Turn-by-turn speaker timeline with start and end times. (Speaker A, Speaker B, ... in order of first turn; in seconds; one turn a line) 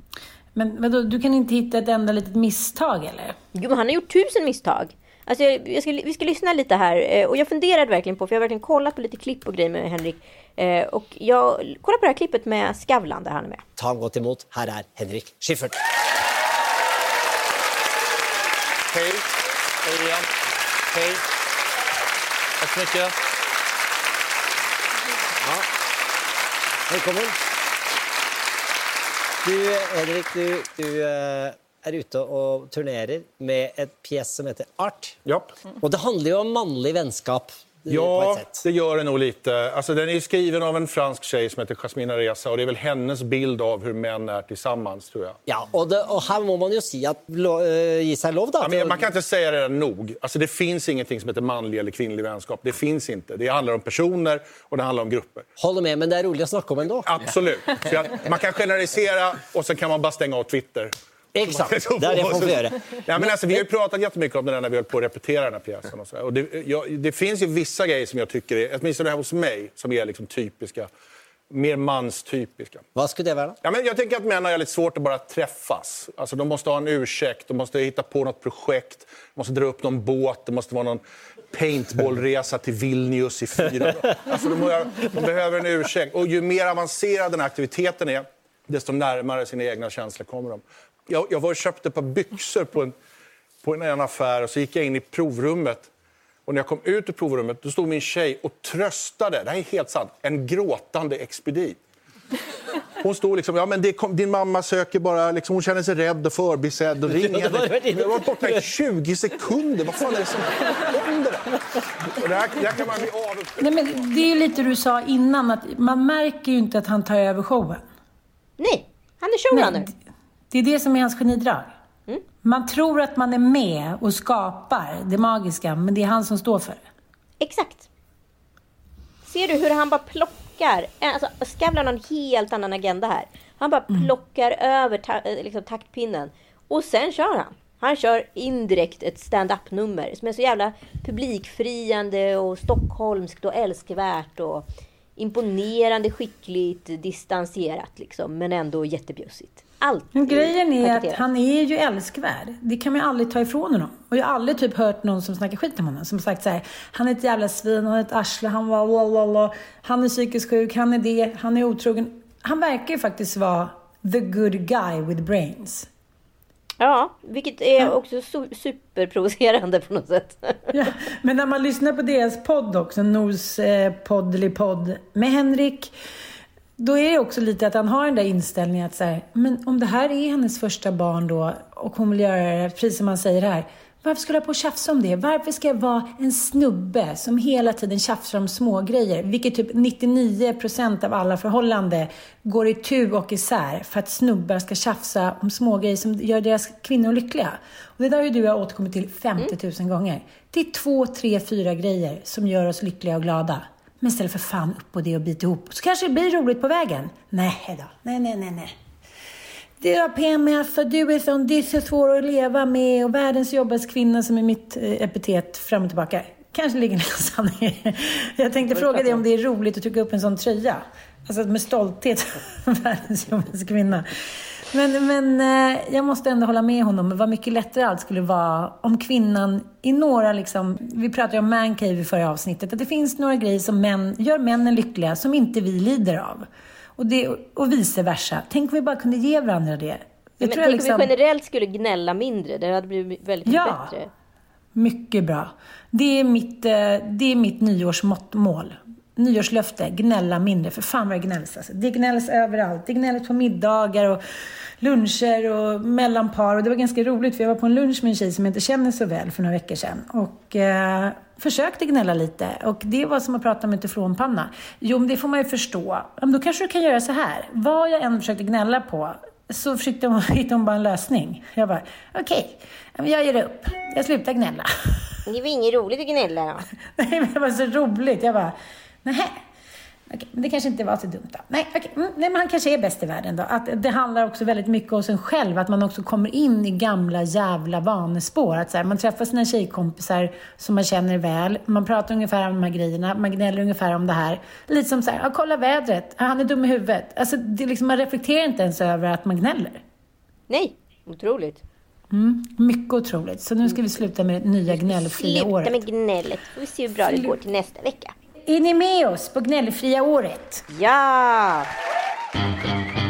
Speaker A: 0.6-3.4
Speaker B: 3.5-13.6
Speaker C: 13.8-15.8
Speaker D: 18.9-19.3
Speaker D: 19.8-20.3
Speaker D: 20.9-21.2
Speaker D: 22.6-23.1
Speaker C: 26.9-27.4
Speaker C: 29.4-35.2
Speaker D: 35.3-35.5
Speaker C: 35.8-38.6
Speaker D: 37.9-45.4
Speaker C: 45.5-49.1
Speaker D: 48.6-55.5
Speaker C: 55.6-58.2
Speaker D: 57.0-70.9
Speaker C: 61.4-63.6
Speaker D: 71.5-72.9
Speaker C: 73.0-73.6
Speaker D: 73.6-93.0
Speaker D: 93.6-95.9
Speaker D: 96.5-101.8
Speaker D: 103.0-111.5
Speaker C: 107.1-108.7
Speaker D: 112.1-113.7
Speaker A: 113.6-117.8
Speaker B: 118.6-119.9
Speaker A: 119.5-120.0
Speaker A: 120.5-121.7
Speaker A: 122.4-126.8
Speaker B: 127.4-127.9
Speaker B: 129.2-144.7
Speaker B: 145.2-151.2
Speaker A: 150.2-165.9
Speaker B: 166.8-170.8
Speaker A: 170.7-175.9
Speaker A: 176.8-208.8
Speaker A: 209.8-236.5
Speaker B: 218.7-219.2
Speaker A: 237.0-241.1
Speaker B: 240.4-244.1
Speaker A: 243.5-243.9
Speaker A: 244.8-254.2
Speaker A: 254.8-275.1
Speaker B: 275.3-276.7
Speaker A: 276.9-279.4
Speaker A: 280.1-299.8
Speaker B: 300.5-301.6
Speaker A: 302.1-305.8
Speaker B: 304.7-308.1
Speaker A: 307.1-307.4
Speaker A: 308.5-310.6
Speaker B: 310.7-311.7